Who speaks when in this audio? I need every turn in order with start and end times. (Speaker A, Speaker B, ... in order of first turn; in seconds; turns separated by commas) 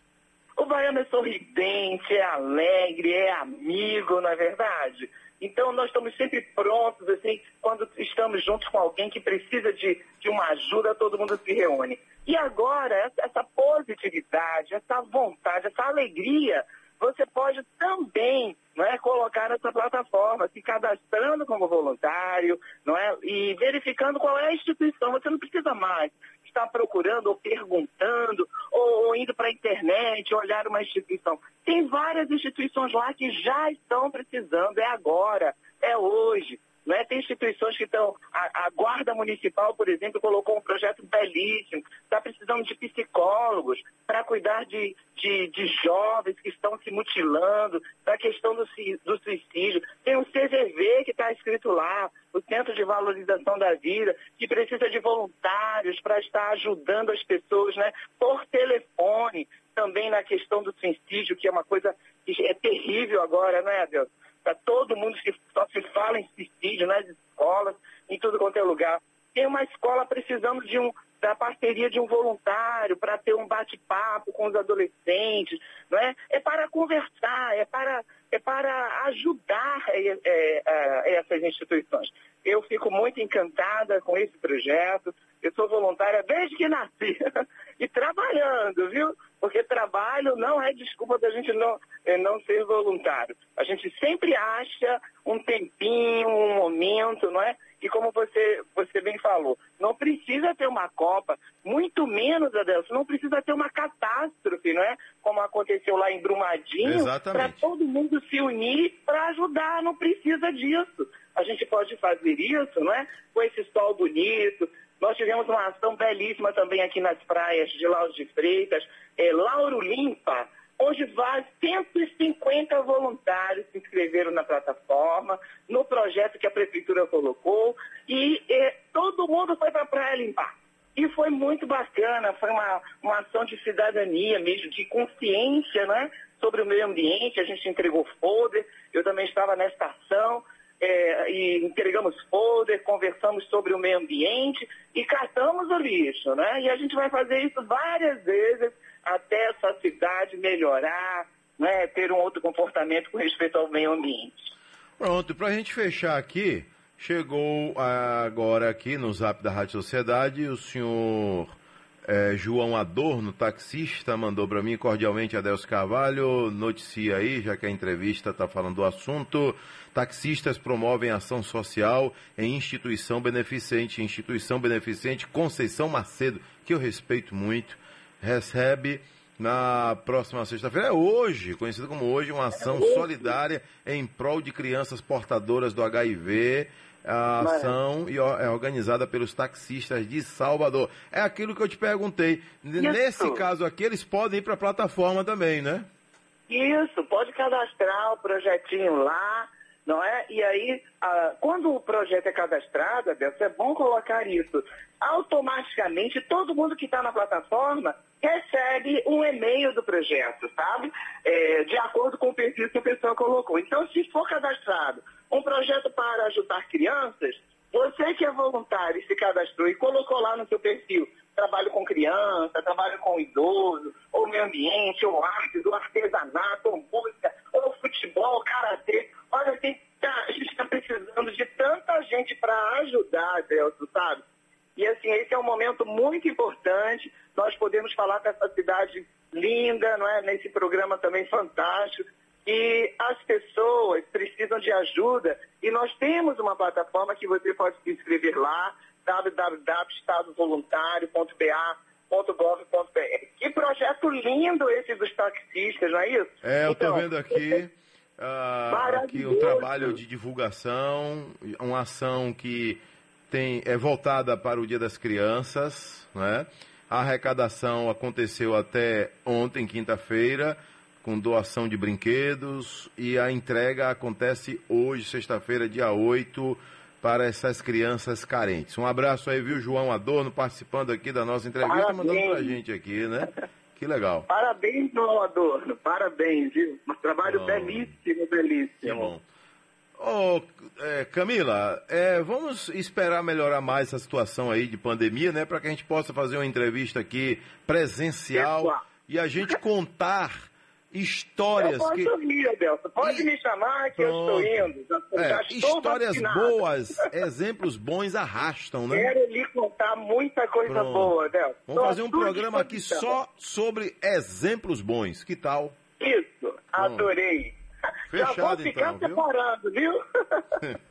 Speaker A: 0.6-87.2, Speaker A: 87.8-154.5, Speaker B: 106.8-107.6, Speaker B: 155.0-161.5, Speaker B: 162.1-195.8, Speaker A: 182.5-183.3, Speaker A: 187.4-187.7, Speaker A: 192.8-193.4, Speaker A: 196.5-234.2, Speaker A: 234.8-257.6, Speaker B: 256.4-284.3, Speaker A: 258.7-260.0, Speaker A: 281.6-282.6, Speaker A: 284.3-289.1, Speaker B: 287.2-287.9, Speaker B: 288.8-289.2, Speaker B: 290.0-302.1, Speaker A: 298.3-298.8, Speaker A: 301.6-307.1, Speaker B: 303.0-303.3, Speaker B: 303.9-309.1, Speaker A: 308.9-313.1, Speaker B: 310.6-311.1, Speaker B: 311.7-315.7, Speaker A: 316.0-317.6, Speaker B: 316.8-317.1, Speaker B: 318.1-319.2, Speaker A: 318.1-320.6